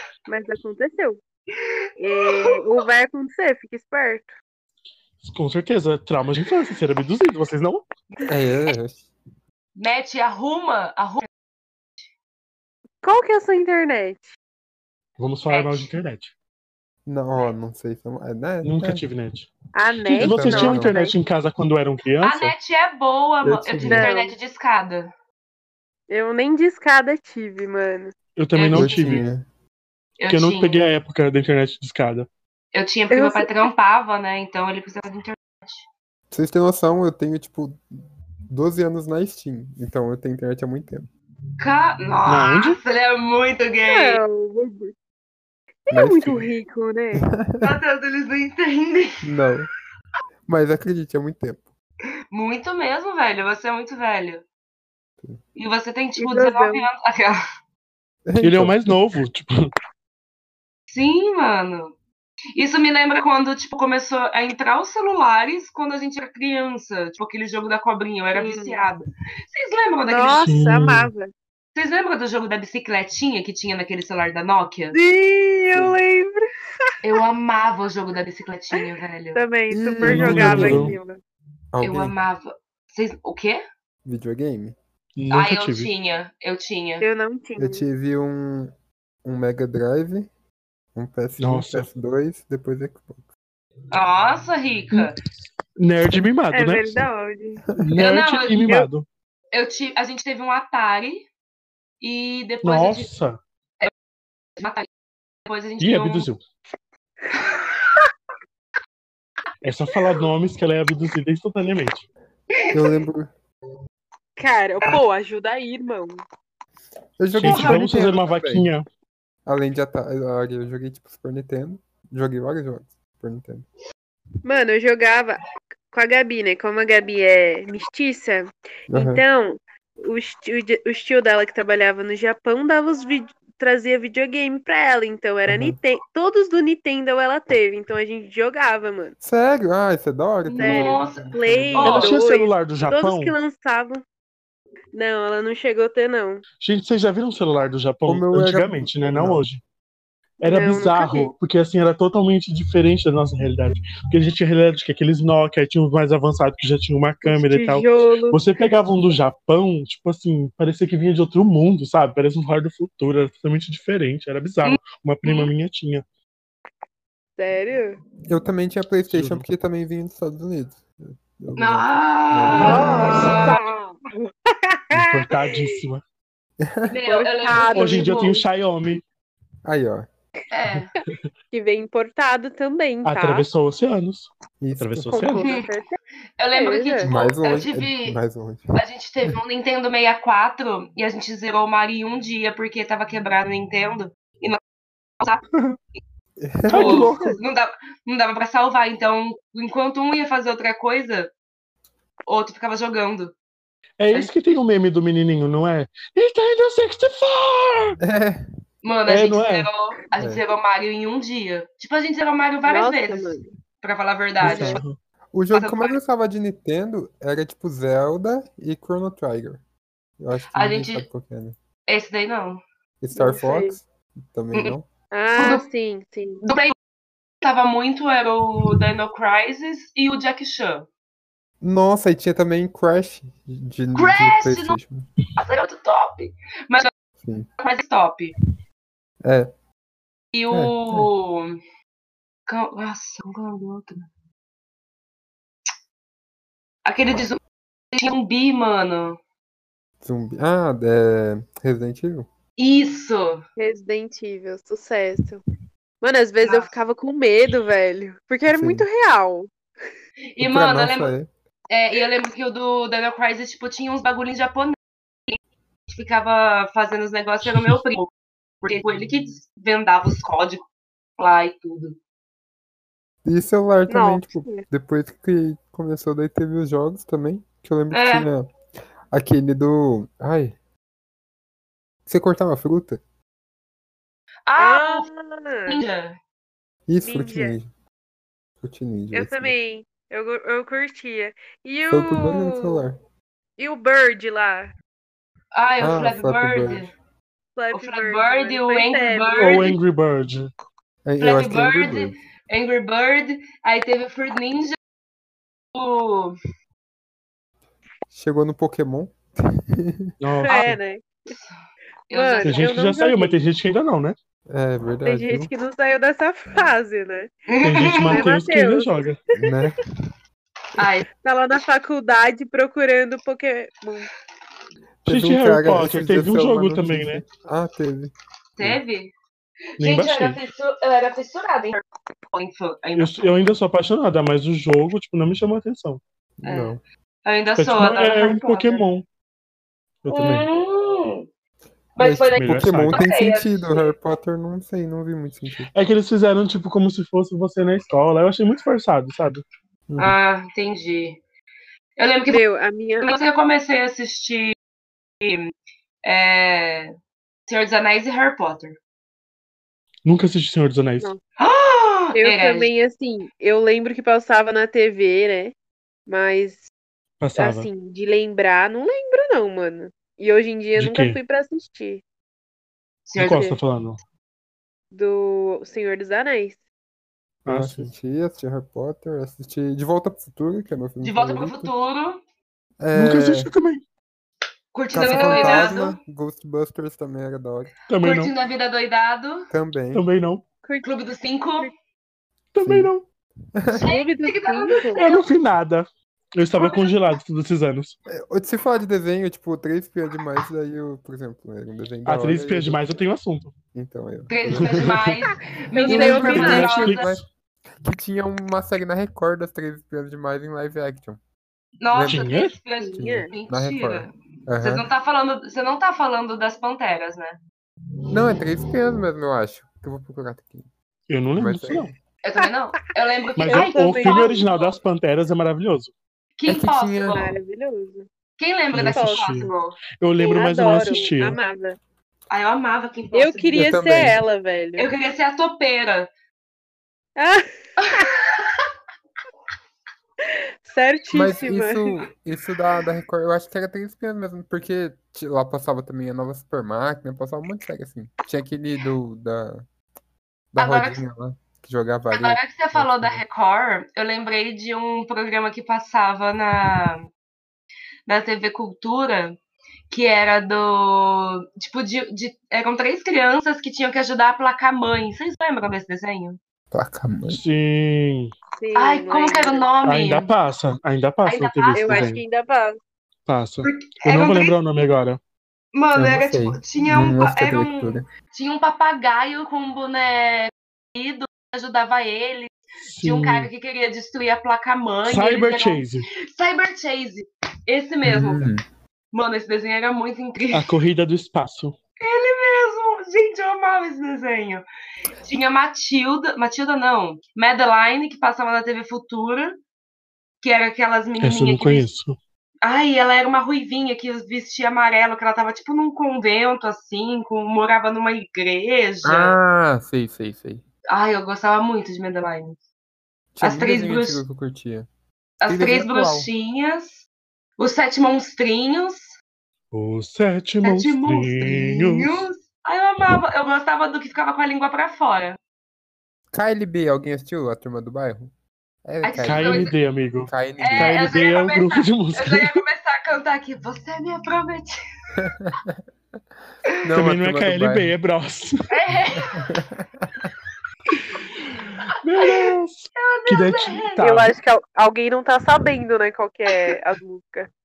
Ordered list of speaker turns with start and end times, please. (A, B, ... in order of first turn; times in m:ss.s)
0:00.3-0:01.2 A
0:01.6-0:02.6 B
0:02.0-0:04.3 A
0:05.2-0:07.8 C
0:08.2-0:09.1 D
0:09.8-0:11.3 B
0:13.0-0:14.3 A
0:15.2-0:16.3 C
0:15.5-0:15.9 B
0:17.0-0:19.0 D
0:18.6-0:22.5 C
0:19.7-0:21.1 A
0:20.2-0:21.0 D
0:22.2-0:25.1 B
0:23.4-0:23.9 D
0:23.7-0:24.0 C
0:23.8-0:24.3 A
0:26.1-0:28.1 A
0:28.4-0:29.2 C
0:28.5-0:29.3 B
0:28.7-0:29.4 D
0:30.2-0:30.8 B
0:30.3-0:32.3 C
0:32.7-0:35.8 B
0:33.1-0:33.7 A
0:36.3-0:37.8 D
0:38.5-0:41.1 D
0:41.6-0:44.2 B
0:42.2-0:42.8 C
0:43.8-0:44.9 A
0:45.9-0:47.3 A
0:45.9-0:46.5 D
0:47.2-0:47.7 D
0:47.6-0:49.3 B
0:49.2-0:49.7 D
0:50.5-0:51.7 D
0:52.3-0:54.4 B
0:55.5-0:57.4 B
0:56.2-0:56.9 A
0:58.2-0:59.0 D
0:58.4-0:59.7 C
1:00.9-1:01.9 B
1:02.5-1:10.5 B
1:08.3-1:08.8 A
1:10.1-1:11.3 A
1:10.4-1:11.1 C
1:11.7-1:15.0 B
1:14.9-1:16.4 A
1:17.0-1:19.4 B
1:19.3-1:21.2 A
1:19.7-1:21.0 D
1:20.0-1:20.9 C
1:21.7-1:22.1 D
1:21.8-1:23.6 B
1:24.0-1:24.8 D
1:25.2-1:25.9 C
1:25.3-1:27.0 B
1:27.0-1:27.8 A
1:27.6-1:28.7 D
1:29.2-1:30.3 D
1:30.9-1:33.2 D
1:31.4-1:31.9 C
1:33.9-1:35.2 B
1:35.8-1:37.0 C
1:36.5-1:37.6 A
1:37.7-1:37.9 D
1:37.8-1:39.0 C
1:38.0-1:38.8 B
1:39.5-1:41.3 B
1:42.0-1:43.1 B
1:42.6-1:43.4 C
1:44.6-1:44.9 B
1:45.4-1:46.3 B
1:45.8-1:46.4 C
1:47.4-1:47.6 B
1:49.6-1:52.0 C
1:52.5-1:53.0 B
1:52.7-1:53.3 D
1:54.4-1:56.2 A
1:57.2-1:58.7 D
1:57.3-1:58.8 C
1:57.4-1:57.8 B
1:59.4-2:03.6 D
2:04.4-2:19.1 A
2:08.9-2:09.2 D
2:15.5-2:15.8 D
2:19.2-2:22.1 D
2:20.4-2:22.2 B
2:20.6-2:24.0 A
2:21.9-2:23.4 C
2:24.9-2:26.4 A
2:26.6-2:29.6 C
2:28.0-2:29.4 D
2:30.4-2:46.0 C
2:30.4-2:31.3 A
2:37.2-2:38.4 A
2:44.6-2:45.5 B
2:47.4-2:48.0 A
2:48.2-2:53.4 D
2:49.1-2:49.4 C
2:51.6-2:53.6 B
2:52.6-2:53.6 C
2:52.6-2:55.7 A
2:54.9-2:56.0 C
2:56.6-2:56.9 D
2:56.9-2:58.4 B
2:57.0-2:58.3 A
2:57.7-2:59.0 C
2:59.6-3:00.1 D
3:00.5-3:00.9 B
3:01.5-3:03.5 A
3:03.0-3:05.5 C
3:04.6-3:05.3 D
3:05.1-3:06.0 A
3:05.4-3:05.7 B
3:06.4-3:08.2 B
3:06.5-3:07.1 A
3:07.0-3:08.8 D
3:08.7-3:14.6 B
3:16.4-3:17.1 D
3:16.7-3:17.4 C
3:16.7-3:21.3 B
3:22.3-3:23.3 B
3:24.0-3:28.0 C
3:28.0-3:28.5 D
3:28.8-3:34.8 B
3:29.1-3:29.7 C
3:30.2-3:30.4 D
3:32.6-3:33.5 A
3:34.4-3:35.0 C
3:34.4-3:34.8 D
3:35.3-3:39.6 D
3:35.5-3:36.0 B
3:40.2-3:41.6 D
3:40.5-3:41.0 B
3:41.9-3:42.6 B
3:43.0-3:44.9 D
3:43.1-3:43.8 A
3:45.1-3:46.4 A
3:45.4-3:45.6 B
3:46.4-3:46.7 B
3:47.4-3:50.9 B
3:51.6-3:55.1 D
3:53.9-3:54.8 B
3:55.4-3:56.9 B
3:57.2-3:57.5 D
3:57.6-3:58.3 B
3:59.2-3:59.5 D
4:00.3-4:01.6 B
4:00.5-4:01.1 D
4:02.5-4:04.1 B
4:06.8-4:07.4 B
4:07.9-4:09.2 B
4:10.0-4:12.3 D
4:12.6-4:13.4 B
4:13.6-4:15.4 A
4:16.0-4:19.5 A
4:16.4-4:16.7 B
4:18.4-4:18.8 D
4:20.4-4:21.1 B
4:20.4-4:21.3 D
4:21.7-4:28.1 B
4:28.6-4:30.7 B
4:31.2-4:32.0 B
4:33.2-4:38.5 D
4:33.9-4:34.6 A
4:37.9-4:38.3 B
4:39.1-4:40.6 D
4:42.1-4:43.0 D
4:44.5-4:45.1 B
4:44.6-4:45.8 A
4:45.7-4:46.2 B
4:46.9-4:47.7 D
4:47.0-4:47.6 A
4:48.6-4:49.5 D
4:49.1-4:52.8 A
4:51.9-4:53.0 D
4:53.6-4:54.7 A
4:55.5-4:56.9 B
4:55.8-4:56.9 D
4:57.5-4:59.6 A
4:57.7-4:59.8 B
4:59.4-5:00.5 C
5:01.0-5:02.2 D
5:01.2-5:04.8 B
5:05.7-5:06.4 B
5:08.1-5:10.1 D
5:10.2-5:10.8 C
5:10.4-5:11.1 A
5:12.1-5:12.6 B
5:12.1-5:13.4 A
5:12.4-5:14.2 C
5:14.5-5:15.5 D
5:15.0-5:17.3 A
5:17.5-5:18.3 B
5:17.6-5:19.2 C
5:18.0-5:19.5 A
5:19.4-5:19.8 D
5:20.8-5:21.1 B
5:21.2-5:24.1 A
5:25.0-5:28.8 D
5:25.0-5:27.2 C
5:28.6-5:29.1 B
5:29.8-5:30.4 C
5:29.8-5:33.2 B
5:33.0-5:36.0 C
5:36.4-5:36.8 D
5:36.4-5:38.8 B
5:37.6-5:39.0 C
5:40.0-5:40.4 C
5:40.1-5:41.3 B
5:42.0-5:43.9 B
5:42.0-5:45.7 D
5:42.4-5:43.0 C
5:45.7-5:49.4 C
5:49.9-5:50.2 D
5:50.0-5:51.2 B
5:52.0-5:52.4 B
5:52.3-5:53.1 A
5:53.0-5:54.6 B
5:55.2-5:55.5 B
5:56.0-5:56.9 B
5:57.5-5:58.8 B
6:00.0-6:01.1 C
6:01.4-6:02.7 B
6:02.1-6:05.5 A
6:06.1-6:06.7 A
6:07.2-6:07.7 C
6:07.4-6:12.0 A
6:10.8-6:11.2 C
6:13.1-6:13.5 B
6:13.2-6:14.0 C
6:14.9-6:16.6 A
6:17.4-6:17.9 C
6:17.5-6:21.7 D
6:21.0-6:22.2 B
6:22.8-6:23.5 D
6:22.9-6:23.8 C
6:24.7-6:26.0 B
6:24.9-6:27.7 D
6:25.0-6:25.7 A
6:27.9-6:28.3 C
6:28.0-6:29.5 B
6:29.5-6:30.0 D
6:29.9-6:30.4 C
6:30.6-6:30.9 A
6:30.8-6:31.7 B
6:32.5-6:33.0 C
6:32.6-6:32.9 D
6:33.5-6:33.9 D
6:33.7-6:35.2 B
6:33.8-6:35.2 A
6:34.9-6:38.0 C
6:36.6-6:37.0 B
6:38.1-6:43.0 D
6:42.0-6:43.5 C
6:43.7-6:45.0 D
6:44.3-6:47.1 B
6:44.5-6:45.1 C
6:45.7-6:46.7 A
6:45.9-6:47.2 C
6:45.9-6:47.2 D
6:47.8-6:51.2 D
6:51.8-6:57.4 B
6:51.9-6:52.3 D
6:52.1-6:52.6 C
6:52.8-6:53.3 A
6:52.9-6:54.8 D
6:58.1-7:00.7 D
7:01.1-7:01.9 C
7:01.3-7:02.0 D
7:02.2-7:04.7 B
7:03.4-7:05.9 C
7:03.4-7:04.4 A
7:06.4-7:07.4 B
7:06.4-7:07.2 D
7:07.1-7:08.1 A
7:08.4-7:09.8 B
7:08.7-7:11.4 C
7:08.7-7:09.4 A
7:10.2-7:11.8 A
7:12.3-7:14.1 B
7:13.1-7:14.9 A
7:13.5-7:14.2 D
7:14.8-7:16.1 B
7:17.2-7:18.1 A
7:17.8-7:18.6 B
7:20.3-7:21.9 A
7:21.1-7:29.6 D
7:30.5-7:33.2 D
7:30.6-7:31.0 B
7:32.1-7:37.1 B
7:38.1-7:39.4 B
7:39.9-7:46.4 B
7:46.7-7:47.4 D
7:47.3-7:48.3 C
7:48.6-7:49.7 A
7:48.7-7:50.3 B
7:49.8-7:52.2 C
7:51.2-7:52.1 B
7:51.7-7:52.8 A
7:53.3-7:55.2 C
7:53.6-7:54.6 B
7:55.7-8:08.5 B
7:55.9-7:58.0 D
8:02.8-8:03.5 C
8:05.0-8:06.1 C
8:08.0-8:08.6 D
8:09.1-8:10.7 B
8:10.5-8:11.8 C
8:12.0-8:14.6 B
8:15.2-8:19.6 B
8:20.4-8:21.9 B
8:21.2-8:22.2 C
8:22.6-8:29.4 B
8:29.0-8:30.6 D
8:30.9-8:32.6 B
8:33.3-8:34.9 D
8:33.4-8:34.2 B
8:35.4-8:37.0 B
8:35.4-8:36.3 D
8:37.6-8:39.1 B
8:39.7-8:42.3 C
8:40.6-8:45.4 B
8:46.3-8:48.3 D
8:48.8-8:51.1 D
8:49.0-8:49.7 B
8:49.2-8:52.6 C
8:50.6-8:54.8 B
8:55.2-8:55.8 D
8:56.8-8:57.9 D
8:57.0-8:58.6 C
8:58.7-8:59.5 B
8:59.2-9:00.3 D
9:02.0-9:04.3 C
9:02.2-9:04.0 B
9:04.0-9:07.5 A